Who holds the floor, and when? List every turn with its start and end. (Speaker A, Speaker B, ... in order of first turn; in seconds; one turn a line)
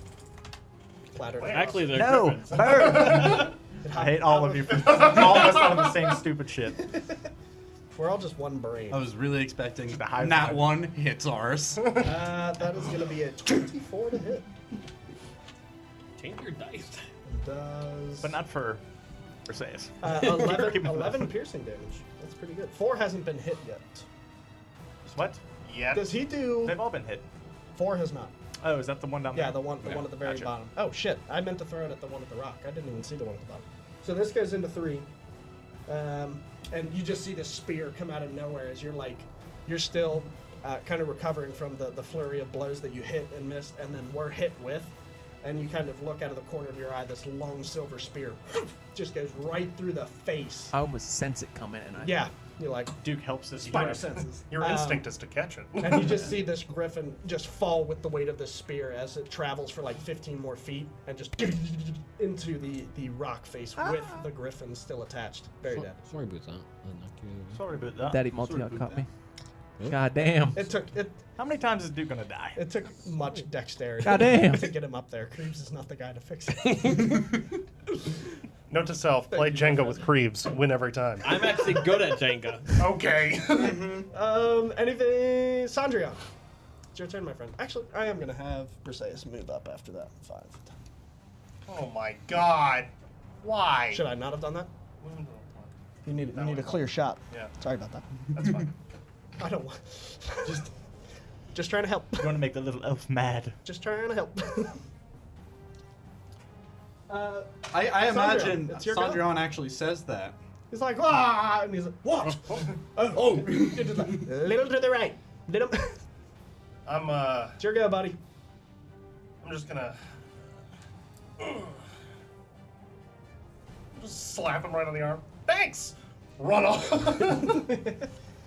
Speaker A: 1.1-1.9
Speaker B: 1.4-3.2
Speaker C: 1.4-3.0
Speaker D: 1.9-6.9
Speaker A: 3.1-5.7
Speaker A: 6.9-7.2
Speaker A: 7.9-9.1
Speaker E: 8.9-12.1
Speaker D: 9.9-10.9
Speaker A: 12.0-14.5
Speaker C: 16.2-17.0
Speaker A: 17.3-18.3
Speaker D: 18.2-18.8
Speaker D: 19.5-21.3
Speaker A: 20.0-24.1
Speaker D: 25.0-25.4
Speaker B: 25.6-26.2
Speaker A: 25.9-26.8
Speaker D: 26.6-27.3
Speaker A: 27.8-28.3
Speaker D: 28.6-30.5
Speaker A: 29.3-35.1
Speaker A: 35.9-50.7
Speaker F: 50.7-52.2
Speaker A: 52.0-53.0
Speaker D: 53.0-54.3
Speaker A: 53.6-55.1
Speaker B: 54.4-56.3
Speaker A: 55.8-66.0
Speaker C: 65.7-67.6
Speaker D: 67.5-68.2
Speaker F: 68.0-69.1
Speaker E: 68.5-69.0
Speaker C: 69.8-70.1
Speaker F: 69.8-70.7
Speaker A: 70.5-71.2
Speaker D: 71.4-72.6
Speaker A: 72.5-77.3
Speaker F: 74.0-74.7
Speaker C: 76.6-77.3
Speaker B: 78.7-81.7
Speaker A: 79.3-80.0
Speaker C: 81.2-82.8
Speaker B: 82.8-83.8
Speaker E: 83.6-84.0
Speaker A: 84.1-86.2
Speaker A: 86.9-90.7
Speaker B: 91.6-94.0
Speaker A: 93.9-94.7
Speaker B: 95.0-95.7
Speaker A: 96.0-98.1
Speaker B: 96.3-97.5
Speaker B: 98.3-98.7
Speaker A: 99.4-100.7
Speaker A: 101.5-102.4
Speaker D: 102.2-103.6
Speaker A: 103.6-104.8
Speaker A: 107.1-109.3
Speaker E: 107.7-110.4
Speaker A: 110.7-116.0
Speaker E: 113.1-114.2
Speaker B: 116.8-117.6
Speaker A: 117.6-118.2
Speaker B: 119.4-120.0
Speaker B: 121.4-121.8
Speaker B: 124.0-127.9